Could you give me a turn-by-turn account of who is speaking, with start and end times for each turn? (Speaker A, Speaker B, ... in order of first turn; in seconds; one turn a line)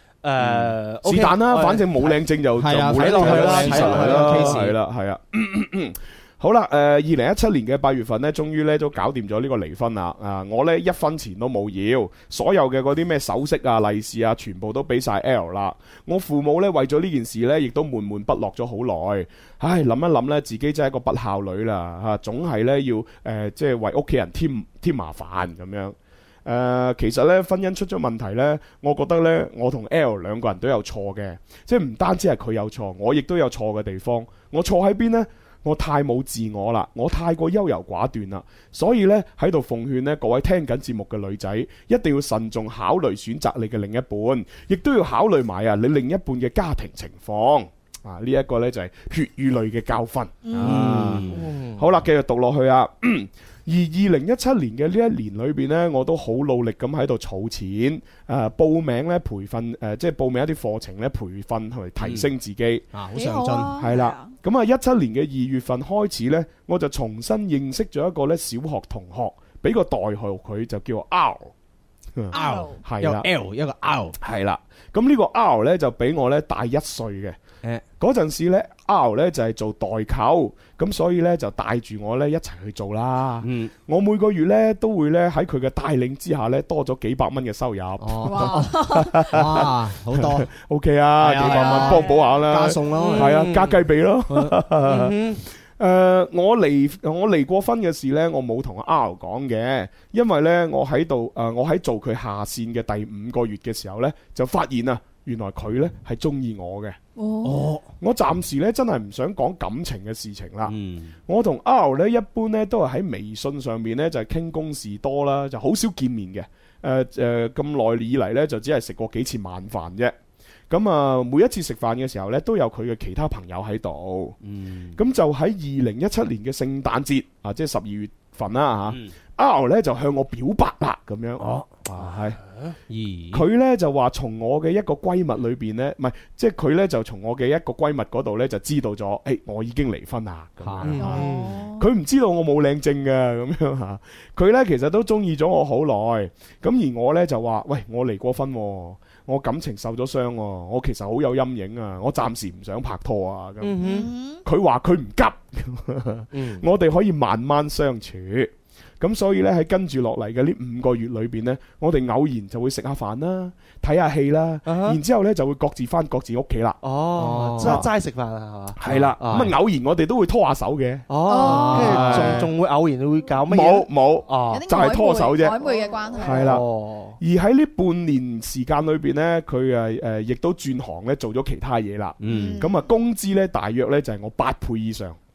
Speaker A: 0.2-2.2
Speaker B: 0.4-62.9
Speaker C: 2.6-4.7
Speaker A: 2.9-4.7
Speaker D: 50.5-51.3
Speaker C: 50.6-51.2
Speaker A: 51.0-51.9
Speaker C: 62.9-63.8
Speaker D: 63.1-64.3
Speaker B: 63.8-71.5
Speaker B: 72.2-73.3
Speaker D: 72.3-72.8
Speaker C: 72.3-74.2
Speaker B: 74.2-77.4
Speaker B: 78.0-95.2
Speaker C: 83.4-83.7
Speaker C: 88.0-90.5
Speaker D: 88.2-89.3
Speaker C: 91.2-93.5
Speaker D: 91.4-92.4
Speaker A: 93.1-93.8
Speaker A: 94.9-95.4
Speaker B: 95.7-107.0
Speaker D: 107.2-107.7
Speaker C: 107.4-107.8
Speaker B: 108.0-110.7
Speaker C: 110.7-111.1
Speaker B: 111.3-120.1
Speaker B: 120.7-124.4
Speaker C: 124.5-124.8
Speaker B: 125.0-132.4
Speaker C: 131.4-131.7
Speaker A: 132.0-132.7
Speaker C: 132.9-133.4
Speaker B: 133.3-153.9
Speaker C: 140.6-141.1
Speaker A: 140.8-141.6
Speaker D: 141.0-141.8
Speaker A: 153.6-154.1
Speaker D: 153.8-154.4
Speaker B: 154.4-166.8
Speaker A: 156.3-156.6
Speaker A: 164.7-165.0
Speaker A: 166.8-169.5
Speaker C: 167.2-167.8
Speaker B: 167.6-167.9
Speaker B: 168.8-171.1
Speaker A: 171.1-174.6
Speaker D: 171.3-172.2
Speaker C: 171.4-172.4
Speaker B: 171.7-172.5
Speaker B: 173.5-175.6
Speaker D: 174.5-176.6
Speaker B: 176.2-176.6
Speaker A: 176.2-177.2
Speaker B: 177.2-185.2
Speaker C: 182.2-182.6
Speaker A: 182.3-182.5
Speaker D: 182.3-182.8